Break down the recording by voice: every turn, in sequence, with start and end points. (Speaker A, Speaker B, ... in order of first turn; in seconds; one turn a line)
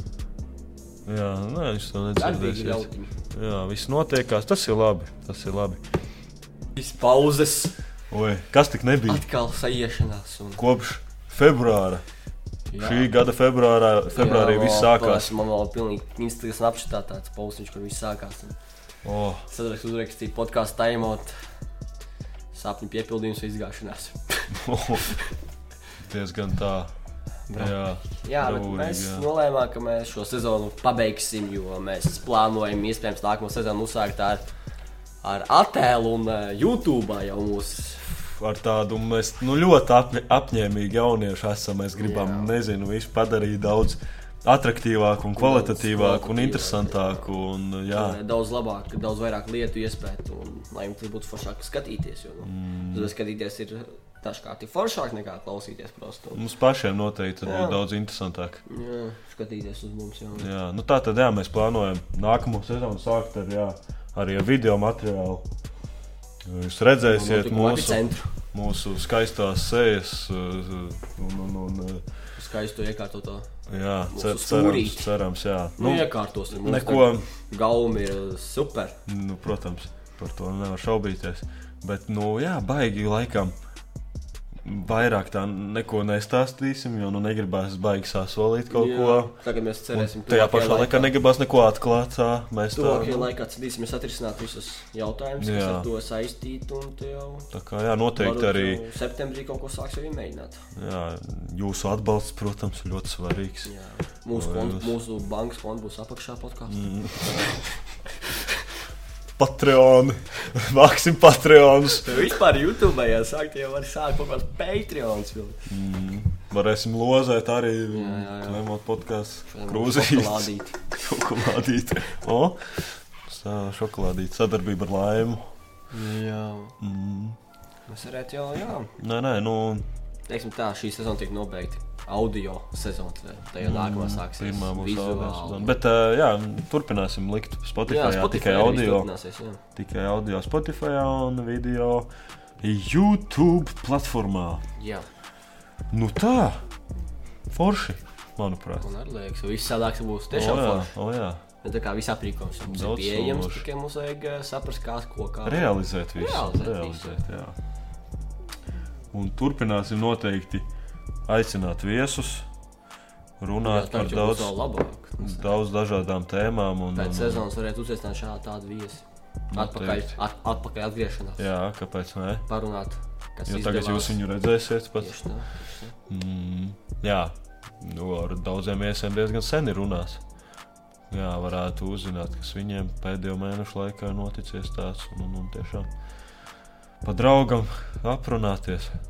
Speaker A: 1.1-5.8
Speaker B: 2.1-3.1
Speaker B: 6.8-7.7
Speaker A: 8.1-9.2
Speaker B: 9.1-10.6
Speaker A: 10.6-12.0
Speaker B: 12.7-13.1
Speaker A: 12.8-15.3
Speaker B: 14.1-18.6
Speaker A: 19.0-19.4
Speaker B: 19.5-21.3
Speaker B: 22.5-25.3
Speaker A: 24.5-25.1
Speaker A: 26.0-26.9
Speaker B: 27.5-34.4
Speaker A: 27.5-29.3
Speaker B: 35.2-38.1
Speaker A: 38.2-48.2
Speaker B: 42.0-42.5
Speaker B: 45.3-47.3
Speaker B: 47.9-56.4
Speaker A: 52.4-53.1
Speaker A: 56.3-58.6
Speaker B: 57.4-57.8
Speaker B: 58.7-60.5
Speaker A: 60.4-65.5
Speaker A: 66.4-72.0
Speaker B: 67.1-68.3
Speaker B: 72.3-73.5
Speaker A: 73.7-77.3
Speaker B: 74.1-75.1
Speaker B: 75.8-79.0
Speaker A: 79.1-83.5
Speaker A: 84.6-89.3
Speaker B: 88.7-91.1
Speaker A: 89.9-93.3
Speaker B: 92.7-97.5
Speaker A: 95.4-95.9
Speaker A: 97.5-98.8
Speaker B: 98.2-100.6
Speaker A: 100.7-103.7
Speaker B: 103.6-107.6
Speaker A: 104.3-104.9
Speaker A: 106.7-107.5
Speaker A: 109.4-112.2
Speaker B: 112.0-115.6
Speaker A: 115.7-125.4
Speaker B: 117.9-118.6
Speaker B: 119.5-120.8
Speaker B: 125.9-126.7
Speaker A: 126.8-127.4
Speaker B: 127.9-128.9
Speaker A: 129.0-129.8
Speaker B: 130.3-135.8
Speaker A: 133.6-139.1
Speaker B: 137.9-139.6
Speaker A: 139.7-142.1
Speaker A: 142.6-144.6
Speaker B: 144.8-145.1
Speaker A: 145.9-146.6
Speaker A: 147.5-148.8
Speaker B: 148.8-150.9
Speaker A: 150.3-151.4
Speaker B: 151.6-157.2
Speaker A: 152.7-153.7
Speaker A: 155.4-157.6
Speaker A: 159.1-160.7
Speaker A: 161.3-162.5
Speaker A: 163.4-164.6
Speaker B: 163.6-165.5
Speaker A: 165.2-167.4
Speaker B: 166.9-171.5
Speaker A: 169.5-170.2
Speaker A: 171.4-172.4
Speaker B: 172.5-174.2
Speaker A: 173.5-175.2
Speaker B: 175.0-175.9
Speaker A: 176.1-180.2
Speaker A: 181.1-185.9
Speaker A: 187.0-188.9